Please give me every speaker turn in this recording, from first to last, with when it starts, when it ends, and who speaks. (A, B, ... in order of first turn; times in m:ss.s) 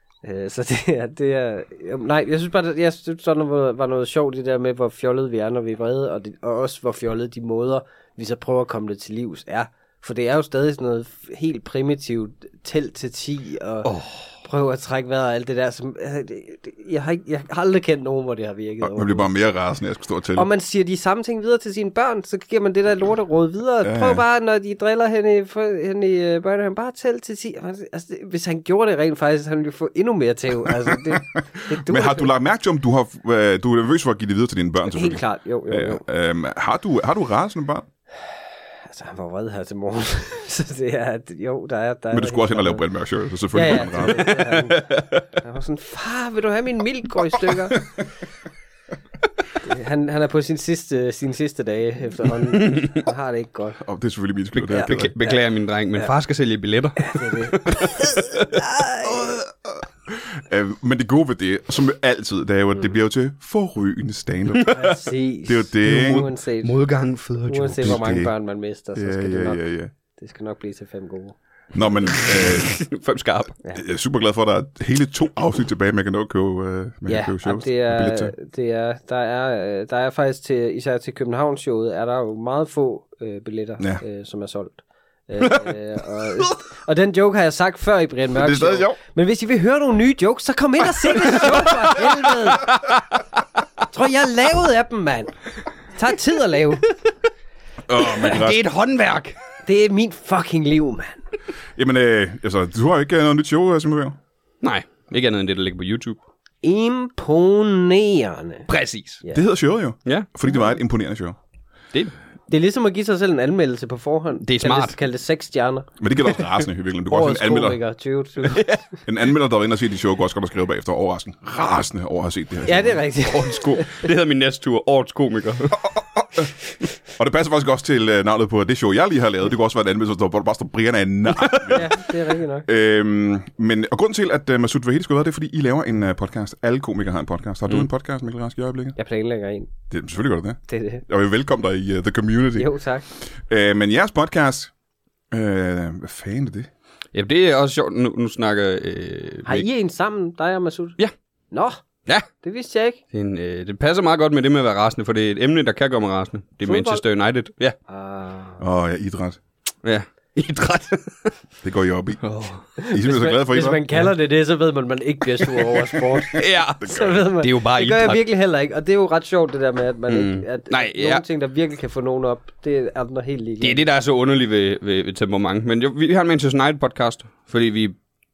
0:00.2-0:13.9 A
0:13.8-0:14.3 B
0:14.4-0:19.3 A
0:18.8-0:20.5 C
0:20.4-0:32.3 A
0:23.8-0:24.2 C
0:30.9-0:37.9 C
0:34.9-0:36.0 A
0:38.9-0:42.8 A
0:42.1-0:44.4 C
0:43.5-0:47.8 A
0:44.4-0:45.1 B
0:49.6-0:53.8 A
0:52.6-0:53.0 B
0:53.8-0:55.1 C
0:54.5-0:58.4 B
0:54.7-0:55.4 A
0:57.0-0:59.4 A
0:59.1-0:59.5 C
1:00.1-1:06.3 C
1:04.7-1:06.7 A
1:05.8-1:08.1 B
1:07.5-1:09.6 A
1:07.8-1:08.3 C
1:09.0-1:09.9 C
1:10.2-1:11.4 A
1:11.7-1:12.8 C
1:12.1-1:13.6 B
1:13.7-1:18.3 C
1:17.1-1:32.7 A
1:28.3-1:29.0 C
1:32.7-1:33.0 B
1:33.9-1:35.3 A
1:35.9-1:36.9 A
1:37.9-1:38.6 C
1:38.0-1:39.4 B
1:39.6-1:41.2 A
1:41.8-1:44.2 C
1:44.6-1:46.2 B
1:46.6-1:48.7 A
1:48.7-1:49.2 B
1:49.3-1:51.4 C
1:52.5-1:55.9 A
1:54.4-1:55.0 B
1:56.0-1:57.8 C
1:57.1-1:58.7 A
1:58.4-1:58.8 B
1:59.1-2:03.0 C
2:02.7-2:04.1 A
2:03.3-2:05.9 B
2:07.2-2:12.0 C
2:11.4-2:11.7 B
2:11.7-2:12.7 A
2:12.7-2:19.0 C
2:19.0-2:19.7 A
2:19.9-2:24.7 C
2:20.7-2:21.0 A
2:22.6-2:23.1 A
2:25.3-2:26.7 C
2:27.1-2:29.7 B
2:29.4-2:31.0 A
2:31.5-2:31.8 A
2:32.4-2:33.0 A
2:33.1-2:37.8 B
2:36.6-2:37.0 A
2:37.9-2:38.6 A
2:38.6-2:39.4 C
2:39.8-2:41.3 B
2:41.6-2:42.2 C
2:42.2-2:42.6 B
2:42.8-2:53.8 A
2:42.9-2:43.8 C
2:46.1-2:47.2 C
2:46.3-2:48.2 B
2:50.1-2:51.2 B
2:53.6-2:58.0 B